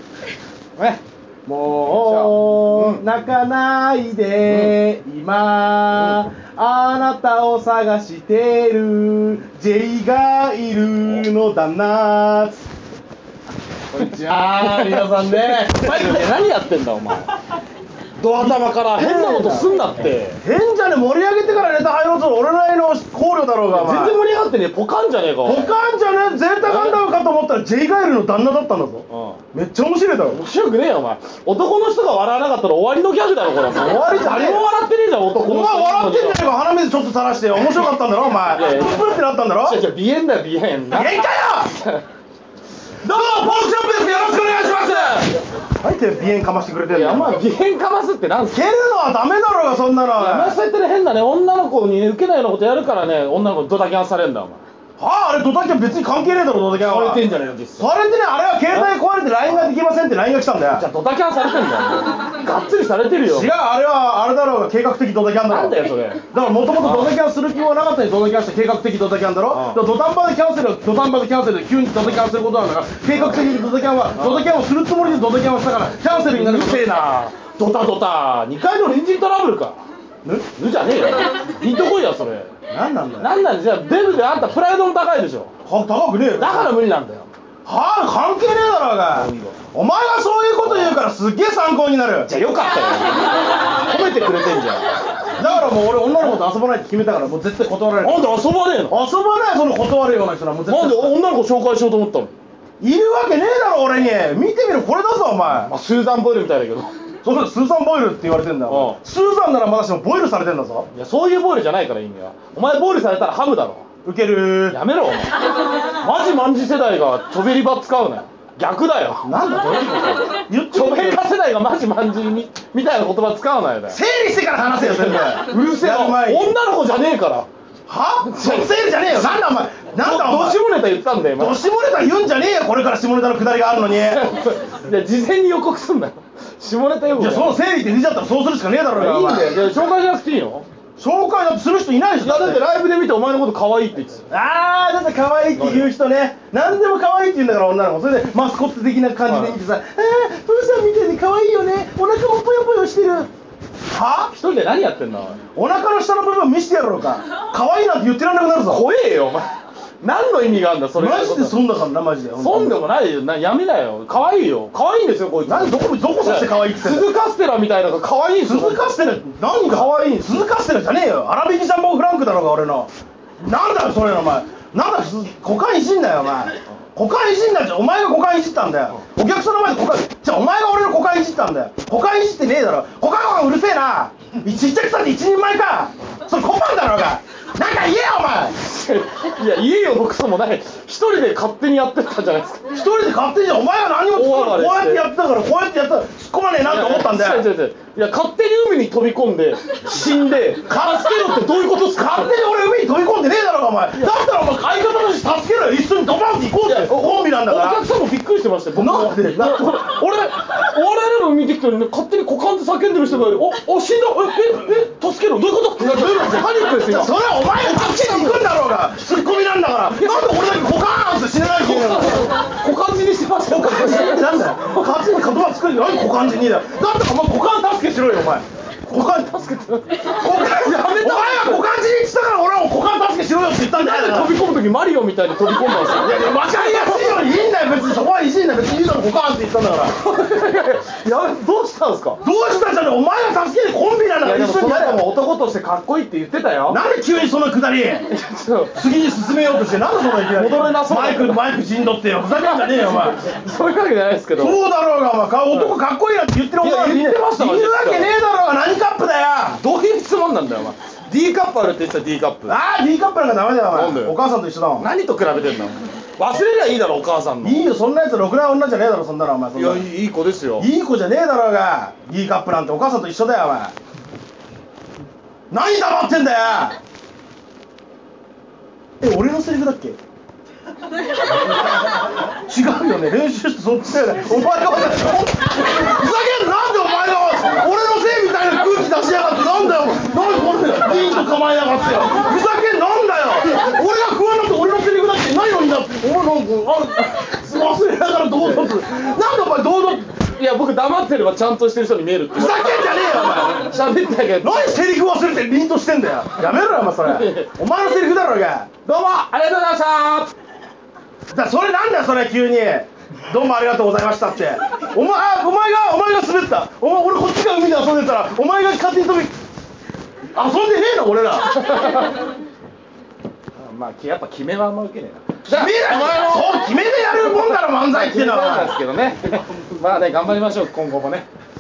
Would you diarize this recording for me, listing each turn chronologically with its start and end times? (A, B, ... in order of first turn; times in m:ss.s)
0:01.5-0:12.6 A
0:01.9-0:03.0 B
0:04.4-0:04.8 B
0:05.9-0:06.2 B
0:13.9-0:16.4 A
0:13.9-0:17.3 B
0:18.2-0:20.4 B
0:18.4-0:19.8 A
0:20.4-0:24.2 A
0:23.7-0:25.7 B
0:25.4-0:30.4 A
0:26.6-0:27.0 B
0:29.1-0:29.4 B
0:30.3-0:36.5 B
0:33.7-0:34.7 A
0:35.4-0:39.8 A
0:38.4-0:42.0 B
0:40.9-0:41.7 A
0:43.0-0:45.2 A
0:43.0-0:45.4 B
0:45.8-0:47.4 A
0:46.9-0:48.7 B
0:48.5-0:50.6 A
0:50.2-0:54.6 B
0:55.0-0:57.2 A
0:56.8-0:57.8 B
0:57.8-1:00.9 A
0:58.7-0:59.7 B
1:00.7-1:03.5 B
1:03.2-1:05.8 A
1:05.5-1:06.2 B
1:06.3-1:17.2 A
1:06.8-1:07.1 B
1:09.5-1:09.8 B
1:13.1-1:13.4 B
1:14.2-1:14.5 B
1:16.3-1:19.8 B
1:20.6-1:22.5 B
1:22.7-1:23.3 A
1:23.2-1:25.5 B
1:25.6-1:26.8 A
1:26.3-1:27.3 B
1:27.6-1:32.3 A
1:29.1-1:29.6 B
1:30.6-1:31.0 B
1:32.3-1:34.9 B
1:35.4-1:38.4 A
1:38.0-1:39.0 B
1:38.9-1:41.2 A
1:40.7-1:42.4 B
1:42.8-1:45.7 A
1:45.6-1:46.9 B
1:47.2-1:50.9 A
1:48.7-1:49.0 B
1:50.9-1:53.8 B
1:54.0-1:54.8 A
1:54.7-1:55.4 B
1:55.9-1:59.3 B
1:59.2-2:01.2 A
2:00.7-2:04.0 B
2:03.9-2:06.6 A
2:04.7-2:07.5 B
2:07.9-2:10.6 A
2:08.3-2:08.7 B
2:10.0-2:11.6 B
2:11.4-2:14.3 A
2:14.0-2:17.6 B
2:17.2-2:19.6 A
2:18.9-2:20.7 B
2:21.0-2:22.6 A
2:22.2-2:24.2 B
2:24.3-2:33.3 A
2:25.6-2:25.9 B
2:29.3-2:29.6 B
2:33.9-2:34.3 A
2:34.3-2:35.4 B
2:35.6-2:38.8 A
2:38.7-2:39.5 B
2:40.0-2:41.6 B
2:41.0-2:42.8 A
2:42.4-2:48.9 B
2:45.5-2:47.1 A
2:48.4-3:08.6 A
2:49.6-2:50.5 B
3:08.6-3:12.7 B
3:12.7-3:17.5 A
3:14.1-3:15.1 B
3:16.6-3:22.4 B
3:20.7-3:27.8 A
3:26.6-3:38.5 B
3:28.7-3:29.9 A
3:35.8-3:42.3 A
3:39.9-3:40.5 B
3:41.6-3:44.6 B
3:43.4-3:49.6 A
3:49.4-3:51.7 B
3:50.1-3:54.4 A
3:53.8-3:57.2 B
3:55.8-4:00.0 A
4:00.0-4:02.2 B
4:02.2-4:05.0 A
4:04.2-4:06.8 B
4:06.7-4:08.1 A
4:08.1-4:08.8 B
4:08.7-4:13.2 A
4:10.4-4:11.4 B
4:12.7-4:14.6 B
4:14.4-4:19.6 A
4:15.5-4:15.8 B
4:16.6-4:18.1 B
4:19.6-4:22.6 B
4:22.5-4:24.9 A
4:23.7-4:24.2 B
4:24.8-4:27.7 B
4:27.4-4:29.9 A
4:29.6-4:30.7 B
4:30.6-4:33.7 A
4:35.5-4:36.8 A
4:39.0-4:40.0 A
4:42.4-5:00.1 A
4:58.4-4:58.7 B
5:00.4-5:04.8 B
5:02.3-5:03.7 A
5:04.4-5:08.7 A
5:07.0-5:07.5 B
5:08.9-5:10.3 B
5:11.3-5:19.4 A
5:20.3-5:21.5 A
5:21.5-5:22.3 B
5:23.6-5:31.3 B
5:25.5-5:28.8 A